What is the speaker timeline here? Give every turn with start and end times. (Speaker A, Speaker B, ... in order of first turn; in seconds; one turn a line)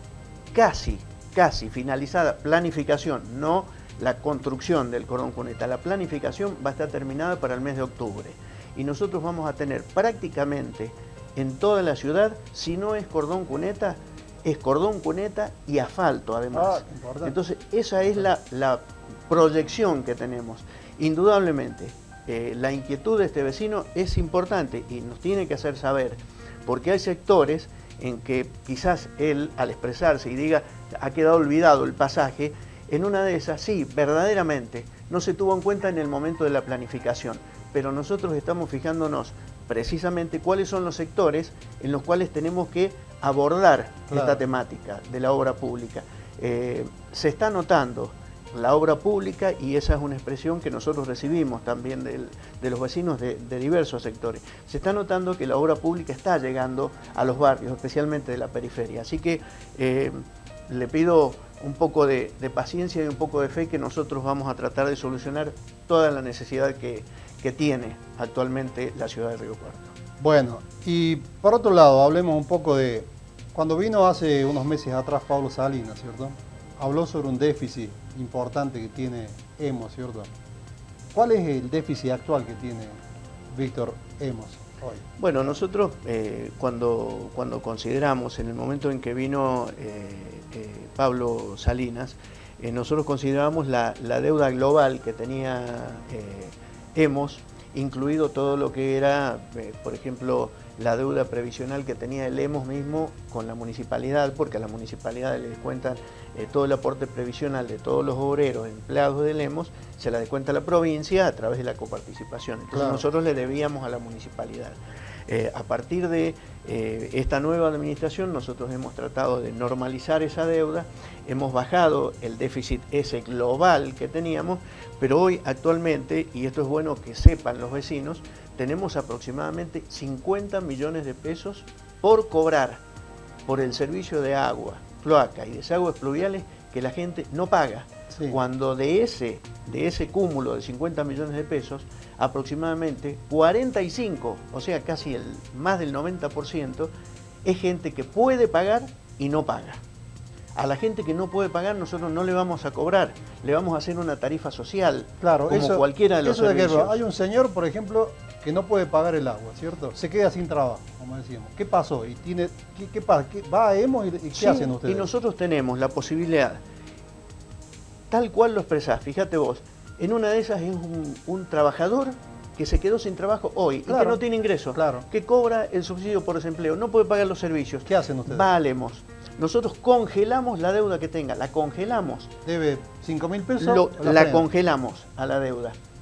Speaker A: 0.5-69.9
Speaker B: 16.5-17.4
Speaker B: 44.1-44.4
Speaker B: 70.2-80.3
Speaker B: 81.1-83.0
Speaker B: 83.5-85.6
Speaker A: 85.2-132.8
Speaker B: 112.7-113.0
Speaker A: 133.5-146.9
Speaker B: 138.1-138.4
Speaker A: 147.4-149.8
Speaker A: 150.6-157.0
Speaker B: 155.2-165.1
Speaker A: 164.3-166.6
Speaker A: 168.1-182.3
Speaker B: 173.9-174.2
Speaker B: 174.7-175.1
Speaker B: 177.9-178.5
Speaker B: 182.4-184.5
Speaker A: 183.6-185.8